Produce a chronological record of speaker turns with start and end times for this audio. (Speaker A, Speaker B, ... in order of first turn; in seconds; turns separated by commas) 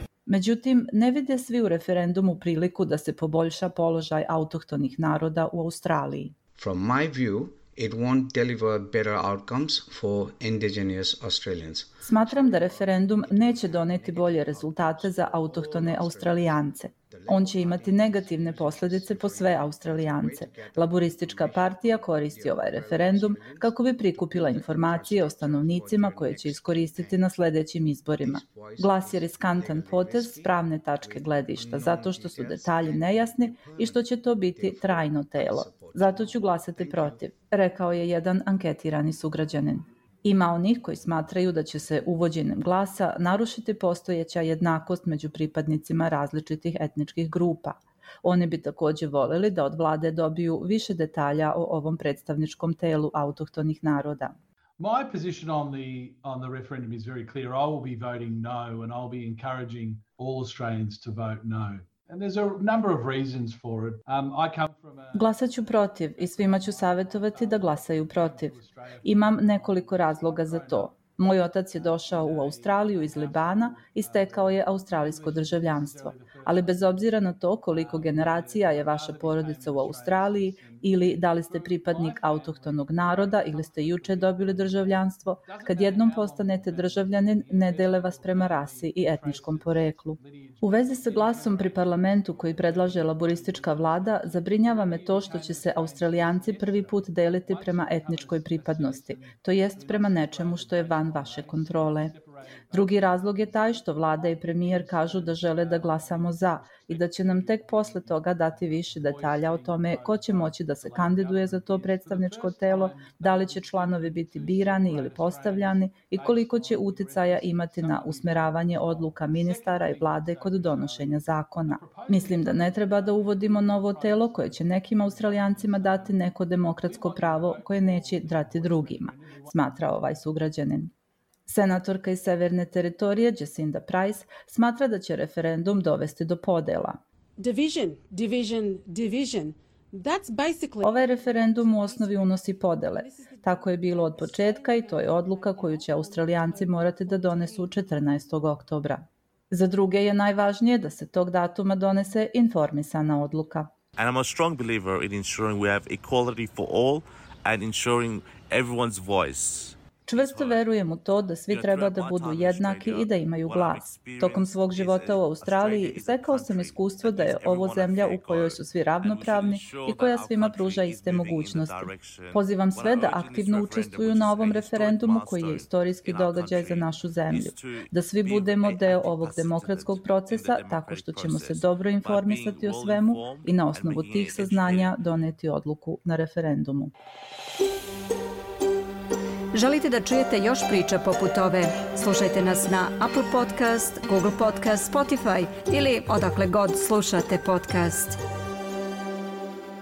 Speaker A: 0.3-6.3, Speaker B: 6.6-27.2, Speaker A: 12.0-54.4, Speaker B: 28.2-37.2, Speaker C: 54.8-70.9, Speaker A: 65.1-102.1, Speaker C: 71.7-76.9, Speaker C: 77.7-126.2, Speaker A: 102.7-130.9, Speaker C: 126.8-129.6, Speaker A: 131.5-137.0, Speaker D: 137.4-141.0, Speaker A: 140.8-153.7, Speaker D: 143.9-145.6, Speaker D: 146.6-147.6, Speaker E: 154.0-160.6, Speaker A: 160.1-186.9, Speaker E: 161.5-184.9, Speaker F: 189.5-198.2